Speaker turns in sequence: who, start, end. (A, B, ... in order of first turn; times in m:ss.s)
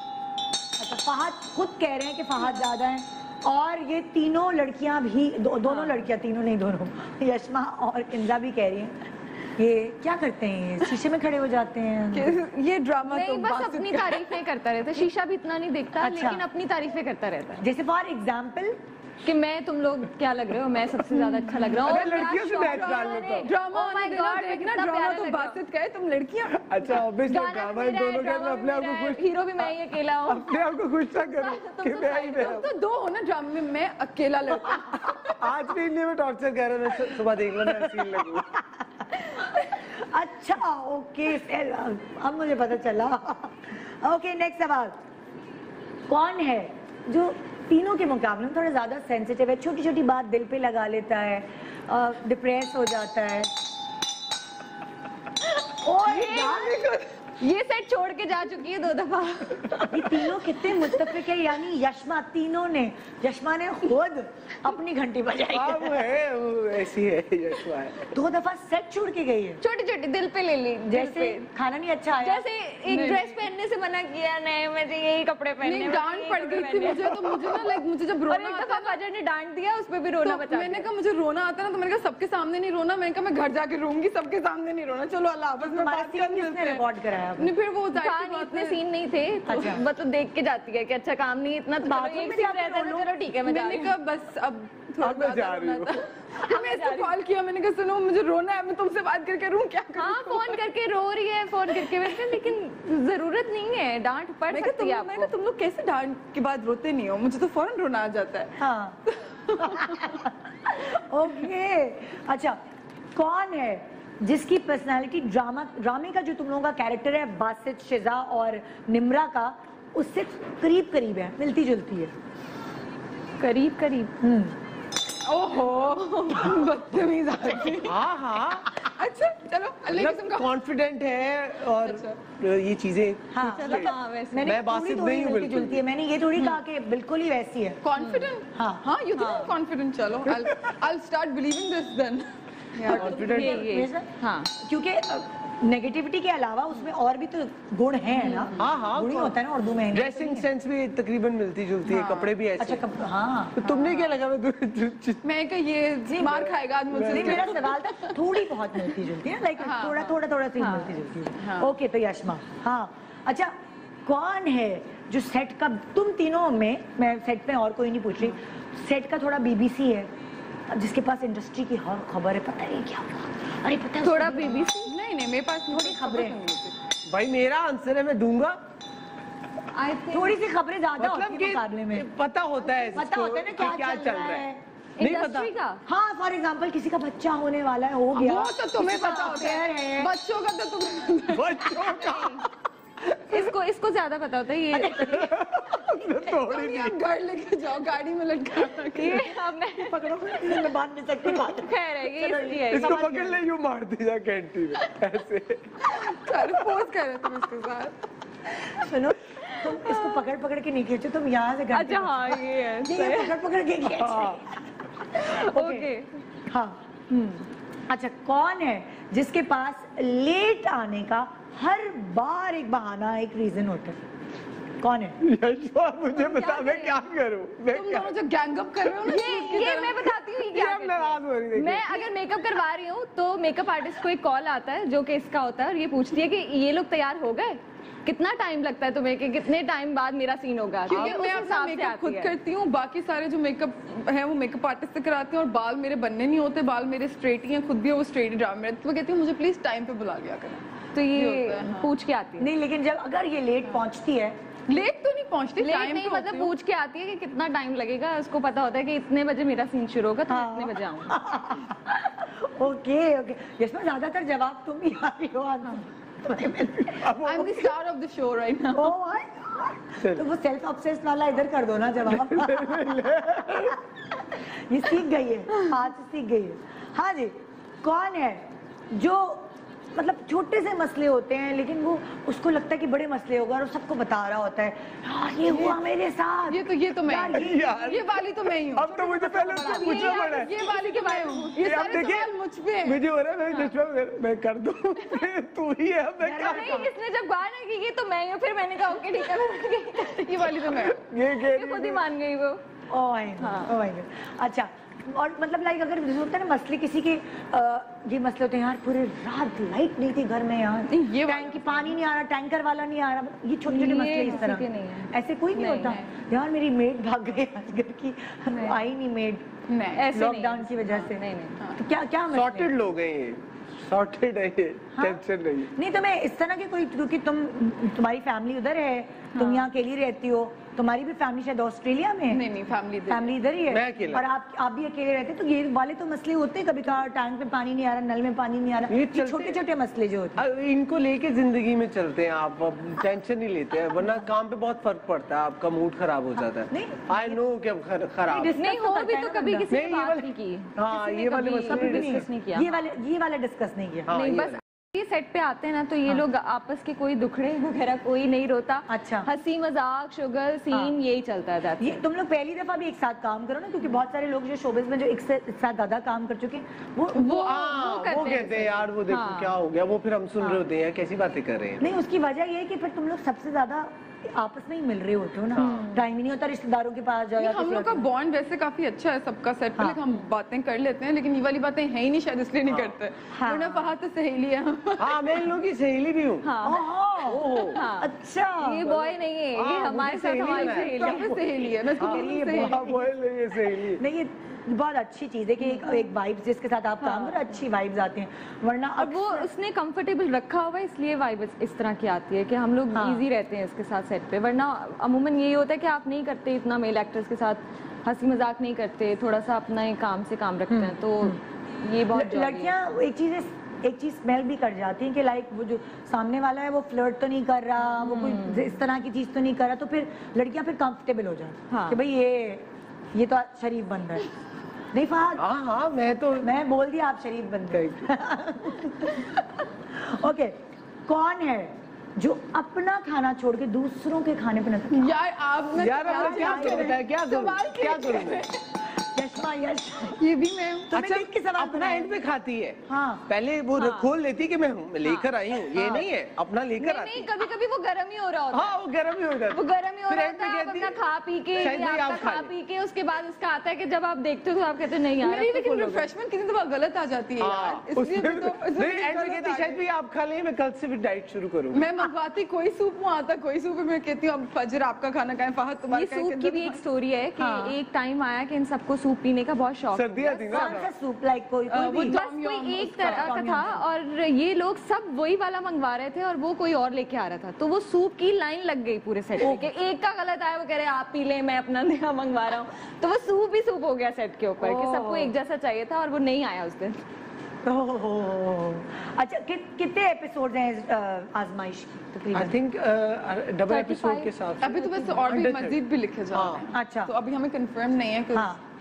0:00.8-0:09.0 A
0:05.7-0:06.0 B
0:09.6-0:12.4 A
0:12.1-0:14.4 C
0:13.1-0:17.6 B
0:16.0-0:16.4 A
0:17.6-0:18.8 A
0:19.2-0:25.6 B
0:21.6-0:27.0 C
0:21.7-0:23.5 D
0:26.6-0:29.7 D
0:27.2-0:30.6 B
0:30.3-0:32.7 D
0:31.1-0:32.6 B
0:32.0-0:35.6 C
0:35.4-0:38.5 D
0:37.1-0:38.8 A
0:39.6-0:45.0 A
0:46.1-0:53.5 A
0:55.8-0:56.9 A
0:56.1-0:56.8 B
0:57.4-1:00.2 B
0:59.9-1:06.1 A
1:05.5-1:08.0 D
1:08.1-1:09.6 A
1:09.6-1:11.5 B
1:10.9-1:12.5 A
1:12.2-1:17.6 B
1:12.9-1:13.4 C
1:15.6-1:19.0 C
1:18.3-1:20.9 B
1:20.2-1:28.8 C
1:25.6-1:27.5 A
1:28.0-1:34.0 B
1:29.5-1:29.8 A
1:31.8-1:33.2 A
1:33.4-1:40.6 C
1:35.0-1:36.0 D
1:36.4-1:37.1 B
1:40.0-1:45.3 B
1:41.7-1:42.5 C
1:44.5-1:50.2 C
1:48.6-1:49.0 A
1:49.6-1:52.6 A
1:53.2-2:02.1 A
2:03.4-2:04.1 B
2:04.2-2:04.6 A
2:05.3-2:10.6 C
2:07.8-2:08.7 D
2:09.9-2:15.8 D
2:11.8-2:12.2 C
2:13.3-2:17.8 A
2:13.4-2:14.6 B
2:17.8-2:23.2 C
2:18.0-2:18.3 B
2:18.5-2:18.8 A
2:19.2-2:19.5 B
2:22.9-2:23.6 D
2:22.9-2:30.5 A
2:22.9-2:24.5 B
2:28.4-2:28.8 C
2:28.6-2:29.4 D
2:29.9-2:32.8 D
2:31.9-2:32.4 C
2:32.6-2:33.6 A
2:33.6-2:35.2 D
2:33.6-2:34.2 C
2:35.2-2:38.2 C
2:36.1-2:36.4 A
2:36.4-2:37.7 D
2:37.0-2:43.5 A
2:39.6-2:40.1 C
2:40.6-2:41.0 B
2:41.4-2:41.7 C
2:44.1-2:50.1 A
2:50.7-2:54.7 A
2:54.0-2:54.9 B
2:54.4-2:56.7 C
2:55.7-2:56.4 A
2:57.1-2:58.6 D
2:59.7-3:00.4 B
3:00.1-3:02.1 A
3:01.0-3:04.5 D
3:02.9-3:04.6 A
3:05.0-3:05.8 B
3:05.0-3:05.5 D
3:05.9-3:10.1 A
3:08.1-3:12.0 C
3:09.0-3:09.3 B
3:11.3-3:12.4 D
3:11.8-3:12.4 B
3:13.1-3:15.2 B
3:14.7-3:15.6 A
3:15.2-3:17.0 D
3:16.3-3:19.3 C
3:18.9-3:20.6 B
3:19.8-3:23.4 A
3:21.6-3:23.1 B
3:22.7-3:26.4 D
3:25.9-3:28.0 C
3:28.7-3:35.9 A
3:29.4-3:30.3 B
3:31.7-3:33.4 B
3:33.9-3:34.4 D
3:35.1-3:36.1 B
3:36.5-3:44.0 A
3:44.8-3:45.2 A
3:45.2-3:48.2 D
3:46.1-3:47.0 B
3:47.7-3:50.1 C
3:48.8-3:49.4 D
3:49.1-4:02.4 B
3:50.5-3:52.1 D
4:00.9-4:11.9 C
4:10.9-4:12.5 B
4:12.4-4:14.4 A
4:14.7-4:16.5 C
4:15.6-4:21.2 B
4:20.3-4:27.2 A
4:26.9-4:27.7 D
4:27.2-4:28.9 C
4:28.8-4:47.8 A
4:30.0-4:30.2 D
4:32.1-4:33.8 D
4:45.5-4:45.8 C
4:46.5-4:53.0 C
4:47.3-4:48.2 D
4:48.8-4:50.5 D
4:49.6-4:51.6 B
4:51.6-4:52.3 D
4:52.8-4:56.9 D
4:53.5-4:53.7 B
4:56.2-4:56.9 A
4:56.4-5:02.6 B
5:00.0-5:01.0 C
5:00.9-5:02.0 D
5:02.9-5:19.4 A
5:03.4-5:03.8 B
5:10.9-5:12.0 C
5:13.7-5:16.0 B
5:18.5-5:18.8 B
5:19.7-5:20.1 C
5:19.9-5:21.6 B
5:20.1-5:21.2 A
5:21.7-5:22.7 A
5:22.3-5:25.7 D
5:25.0-5:32.4 A
5:29.4-5:29.6 B
5:32.3-5:33.4 C
5:33.1-5:40.4 A
5:33.7-5:34.3 D
5:38.9-5:39.6 D
5:40.4-5:48.6 D
5:46.7-5:47.4 A
5:48.3-5:49.7 A
5:48.5-5:52.7 B
5:49.7-5:52.3 D
5:51.6-5:54.2 A
5:54.1-5:54.6 D
5:54.1-6:02.0 B
5:58.9-5:59.3 A
6:01.8-6:07.3 A
6:07.2-6:09.6 B
6:07.2-6:11.9 D
6:10.4-6:10.7 A
6:11.8-6:18.1 A
6:15.6-6:16.0 D
6:17.4-6:25.6 C
6:19.8-6:20.2 A
6:22.7-6:23.0 D
6:23.3-6:23.9 A
6:25.0-6:26.5 D
6:26.4-6:31.4 B
6:26.6-6:28.9 A
6:27.2-6:27.8 D
6:28.9-6:31.3 D
6:30.6-6:32.9 C
6:30.8-6:33.1 A
6:32.0-6:34.0 D
6:33.8-6:39.5 A
6:35.6-6:36.1 B
6:37.0-6:37.6 B
6:39.0-6:52.9 B
6:42.9-6:43.3 A
6:50.7-6:51.4 A
6:52.1-7:04.3 A
6:58.0-6:58.8 B
7:01.7-7:02.0 B
7:04.9-7:05.4 A
7:05.4-7:06.5 D
7:06.4-7:15.2 A
7:07.7-7:08.1 D
7:14.9-7:18.6 C
7:15.8-7:18.4 D
7:16.0-7:17.0 A
7:18.9-7:20.2 A
7:20.2-7:20.9 C
7:20.9-7:22.2 A
7:20.9-7:27.3 D
7:22.9-7:23.2 A
7:23.8-7:24.1 B
7:25.0-7:26.0 B
7:26.8-7:28.8 B
7:28.5-7:31.0 D
7:29.5-7:36.1 B
7:31.6-7:32.5 D
7:35.2-7:39.8 C
7:37.4-7:41.8 D
7:41.7-7:46.8 C
7:45.9-7:50.8 B
7:47.4-7:47.8 A
7:49.9-7:50.9 D
7:50.5-7:52.2 A
7:51.7-7:53.7 C
7:52.0-8:07.0 B
7:53.0-7:53.8 A
7:59.4-7:59.7 A
8:04.6-8:05.3 A
8:07.6-8:12.6 A
8:12.3-8:15.8 D
8:13.7-8:14.3 B
8:14.6-8:18.6 C
8:16.3-8:16.7 D
8:16.7-8:17.1 A
8:18.3-8:18.6 A